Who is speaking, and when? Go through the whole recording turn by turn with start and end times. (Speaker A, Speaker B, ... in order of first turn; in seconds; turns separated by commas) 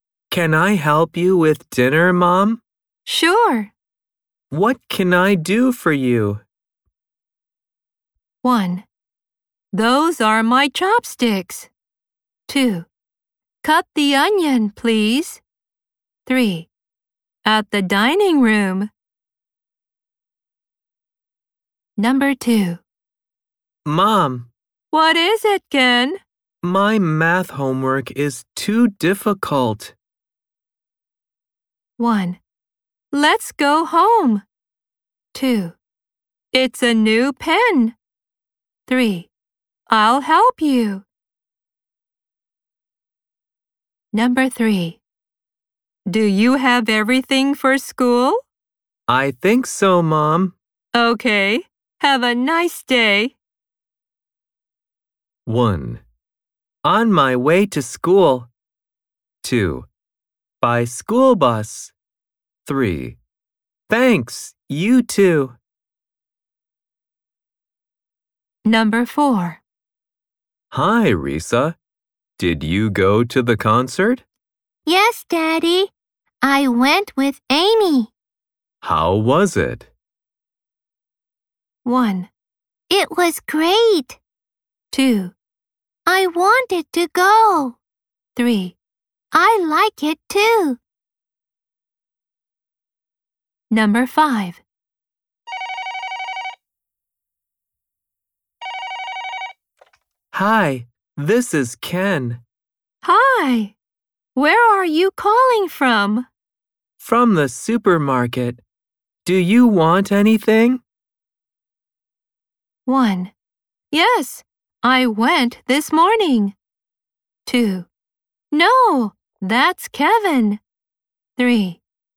Speaker A: 0.3-2.6, Speaker B: 3.0-3.7, Speaker A: 4.5-6.4, Speaker B: 8.4-8.8, Speaker B: 9.7-11.7, Speaker B: 12.5-12.9, Speaker B: 13.6-15.4, Speaker B: 16.2-16.7, Speaker B: 17.4-18.9, Speaker B: 22.0-22.8, Speaker A: 23.8-24.5, Speaker B: 24.9-26.2, Speaker A: 26.6-29.9, Speaker B: 32.0-32.4, Speaker B: 33.1-34.4, Speaker B: 35.3-35.8, Speaker B: 36.5-38.0, Speaker B: 38.9-39.3, Speaker B: 39.9-41.0, Speaker B: 44.1-45.0, Speaker B: 46.1-48.4, Speaker A: 49.1-50.5, Speaker B: 50.9-53.4, Speaker A: 55.5-56.0, Speaker A: 56.8-58.5, Speaker A: 59.4-59.9, Speaker A: 60.6-61.9, Speaker A: 62.6-63.2, Speaker A: 63.9-65.6, Speaker B: 68.6-69.6, Speaker A: 70.7-71.8, Speaker A: 72.4-74.2, Speaker B: 74.8-78.1, Speaker A: 78.8-79.9, Speaker B: 81.8-82.3, Speaker B: 82.9-84.2, Speaker B: 84.9-85.3, Speaker B: 86.0-87.8, Speaker B: 88.3-88.8, Speaker B: 89.3-90.8, Speaker B: 93.7-94.6, Speaker A: 100.3-102.4, Speaker B: 103.0-103.7, Speaker B: 104.3-106.3, Speaker A: 107.0-108.6, Speaker A: 109.2-110.8, Speaker B: 112.8-113.3, Speaker B: 113.9-116.5, Speaker B: 117.5-117.9, Speaker B: 118.5-120.6, Speaker B: 121.4-121.8